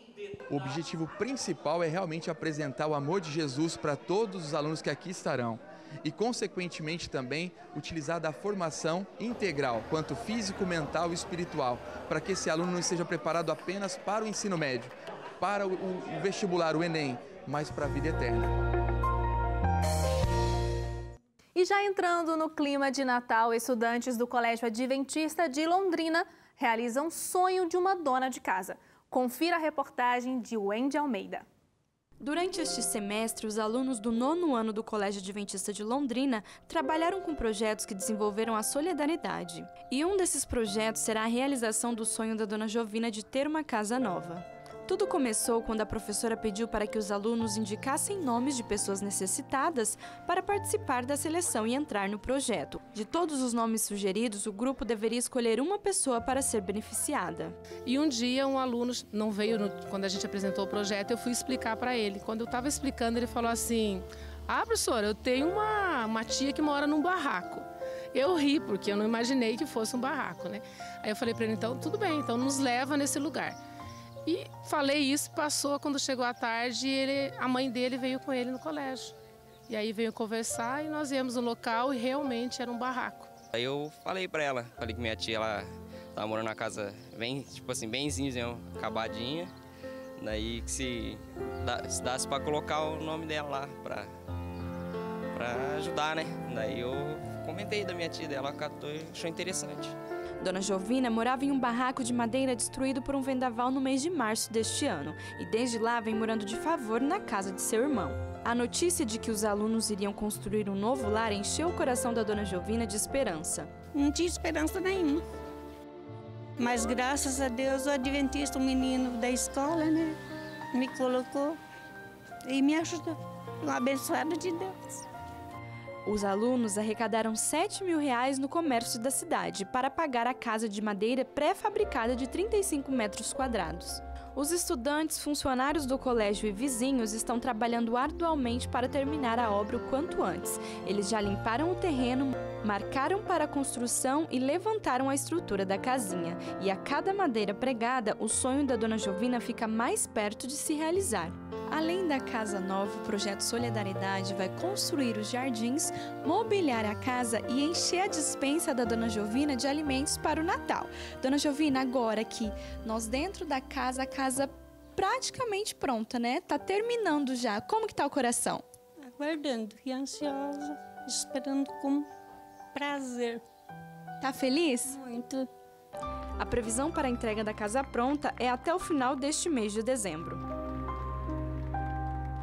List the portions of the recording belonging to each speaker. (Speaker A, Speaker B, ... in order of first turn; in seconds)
Speaker A: 0.5-18.5
Speaker B: 21.6-31.5
Speaker C: 32.2-57.6, 100.4-113.7, 126.0-168.7, 174.2-175.0, 176.4-180.4
Speaker D: 57.9-73.6, 74.3-79.1, 79.7-83.3
Speaker E: 83.5-89.5, 90.2-94.1, 95.3-100.0
Speaker F: 114.0-115.2, 116.6-120.2, 120.7-121.6, 122.5-125.0, 169.0-172.1, 172.7-173.4, 175.0-175.5